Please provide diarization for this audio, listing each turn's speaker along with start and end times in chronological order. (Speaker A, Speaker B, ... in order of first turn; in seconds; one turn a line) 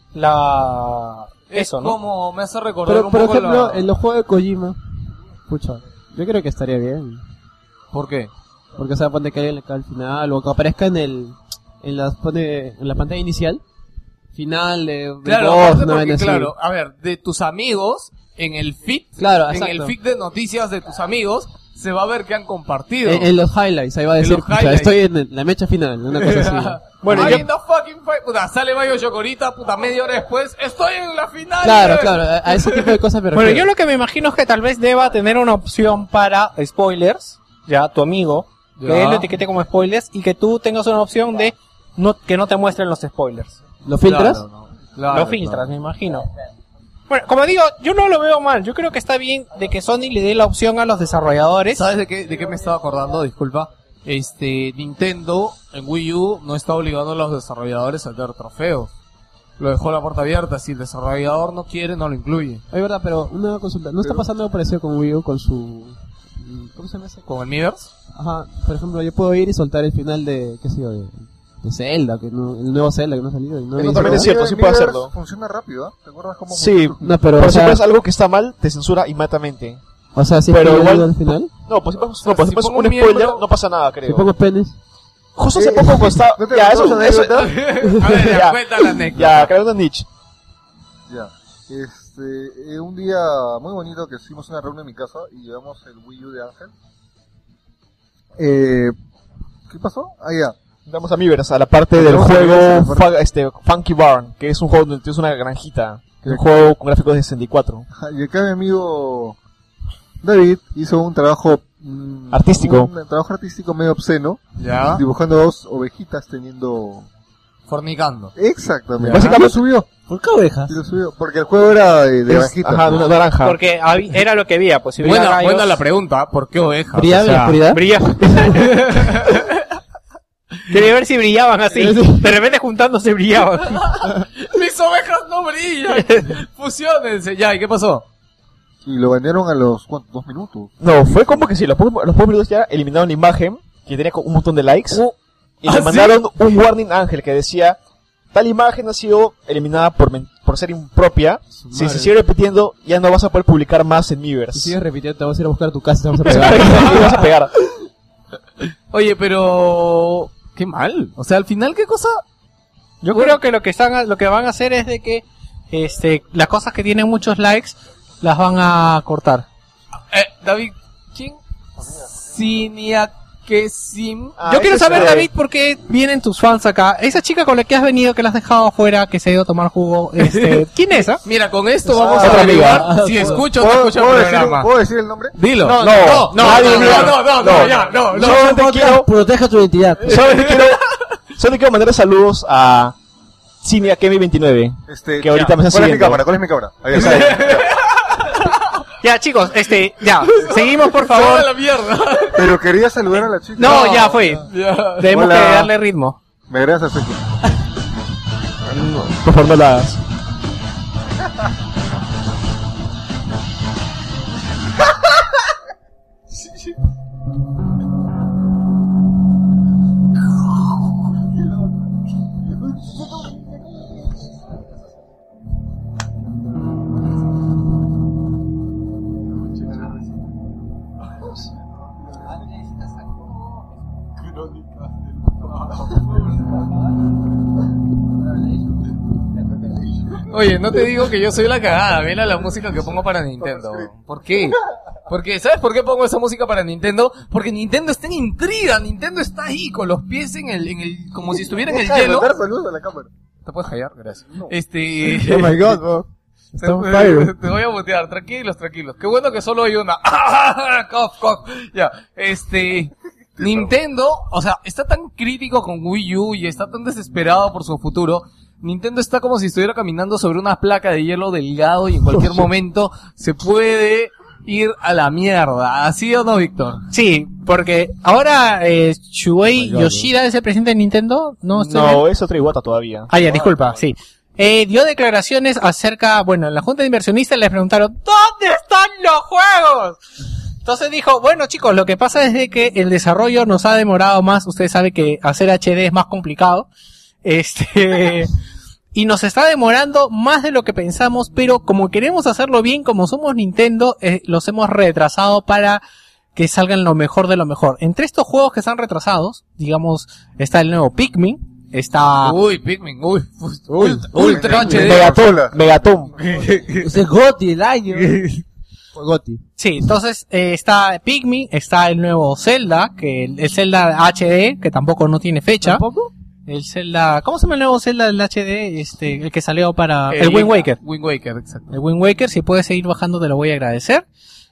Speaker A: 0.1-1.9
Speaker B: 1.5-3.9
Speaker C: 2.9-4.8
Speaker C: 5.5-7.2
Speaker B: 7.9-8.3
Speaker C: 8.8-13.6
Speaker C: 14.3-16.5
Speaker B: 15.2-23.3
Speaker C: 19.2-19.9
Speaker C: 23.0-27.4
Speaker B: 24.2-24.9
Speaker B: 26.1-33.0
Speaker A: 27.0-27.4
Speaker C: 31.6-33.7
Speaker A: 33.3-43.6
Speaker B: 38.8-39.3
Speaker C: 43.8-44.4
Speaker B: 44.0-45.6
Speaker A: 45.1-46.2
Speaker A: 47.1-51.8
Speaker B: 51.7-58.9
Speaker B: 59.6-62.6
Speaker C: 62.7-67.3
Speaker B: 67.2-67.9
Speaker C: 68.1-74.3
Speaker D: 73.8-75.1
Speaker E: 73.8-77.1
Speaker D: 76.5-79.8
Speaker C: 77.0-77.8
Speaker C: 80.1-81.5
Speaker D: 80.5-81.1
Speaker D: 81.6-84.3
Speaker B: 82.2-83.4
Speaker C: 84.0-84.8
Speaker D: 85.3-90.1
Speaker E: 85.5-87.6
Speaker B: 87.2-89.5
Speaker E: 91.1-96.7
Speaker E: 98.4-98.9
Speaker E: 99.7-100.5
Speaker D: 100.8-107.9
Speaker E: 101.9-103.0
Speaker E: 106.2-106.6
Speaker E: 108.0-109.4
Speaker E: 110.2-117.1
Speaker D: 112.3-112.9
Speaker B: 114.6-115.0
Speaker B: 117.7-118.3
Speaker E: 118.4-119.9
Speaker D: 119.0-119.6
Speaker F: 120.1-120.8
Speaker E: 120.7-123.0
Speaker D: 122.3-123.6
Speaker A: 123.4-125.8
Speaker B: 125.0-127.6
Speaker C: 126.9-127.8
Speaker A: 127.7-128.5
Speaker B: 128.3-129.6
Speaker A: 130.7-133.9
Speaker C: 131.7-132.3
Speaker B: 133.7-138.1
Speaker A: 135.9-136.3
Speaker E: 138.8-140.7
Speaker D: 140.8-145.0
Speaker D: 145.6-147.8
Speaker B: 145.7-146.2
Speaker D: 148.3-154.8
Speaker C: 151.7-152.1
Speaker C: 154.5-157.1
Speaker D: 156.2-157.5
Speaker B: 156.4-157.2
Speaker B: 158.9-162.2
Speaker A: 163.0-169.4
Speaker B: 170.1-171.4
Speaker B: 172.0-174.3
Speaker D: 174.4-175.3
Speaker A: 174.4-181.2
Speaker B: 180.2-180.7
Speaker B: 181.2-184.7
Speaker E: 181.9-185.3
Speaker D: 181.9-182.9
Speaker F: 182.6-183.4
Speaker B: 185.3-188.9
Speaker D: 185.7-189.1
Speaker A: 185.7-187.2
Speaker F: 188.3-190.2
Speaker D: 190.0-192.9
Speaker B: 190.1-190.9
Speaker D: 193.6-196.2
Speaker E: 194.9-197.7
Speaker B: 196.9-198.7
Speaker A: 199.0-201.5
Speaker B: 200.3-202.6
Speaker E: 202.3-204.2
Speaker A: 203.6-204.5
Speaker B: 203.6-205.1
Speaker A: 205.0-206.2
Speaker E: 205.1-205.7
Speaker E: 206.5-207.3
Speaker D: 208.7-210.0
Speaker B: 240.2-252.3
Speaker E: 251.7-253.1
Speaker B: 253.4-255.8
Speaker C: 255.1-257.3
Speaker B: 256.6-276.8
Speaker E: 263.4-263.7
Speaker A: 276.9-282.0
Speaker C: 279.5-280.1
Speaker D: 281.6-283.1
Speaker A: 283.1-290.0
Speaker A: 290.6-296.7
Speaker A: 297.2-298.3
Speaker A: 298.9-305.8
Speaker A: 306.3-312.4
Speaker B: 312.2-315.1
Speaker C: 313.7-314.1
Speaker E: 314.1-315.6
Speaker D: 314.6-316.1
Speaker B: 316.2-317.0
Speaker F: 316.8-318.2
Speaker B: 317.9-318.4
Speaker C: 318.9-319.4
Speaker A: 319.6-325.8
Speaker C: 325.6-326.0
Speaker A: 326.5-330.8
Speaker B: 330.1-331.7
Speaker A: 331.7-334.0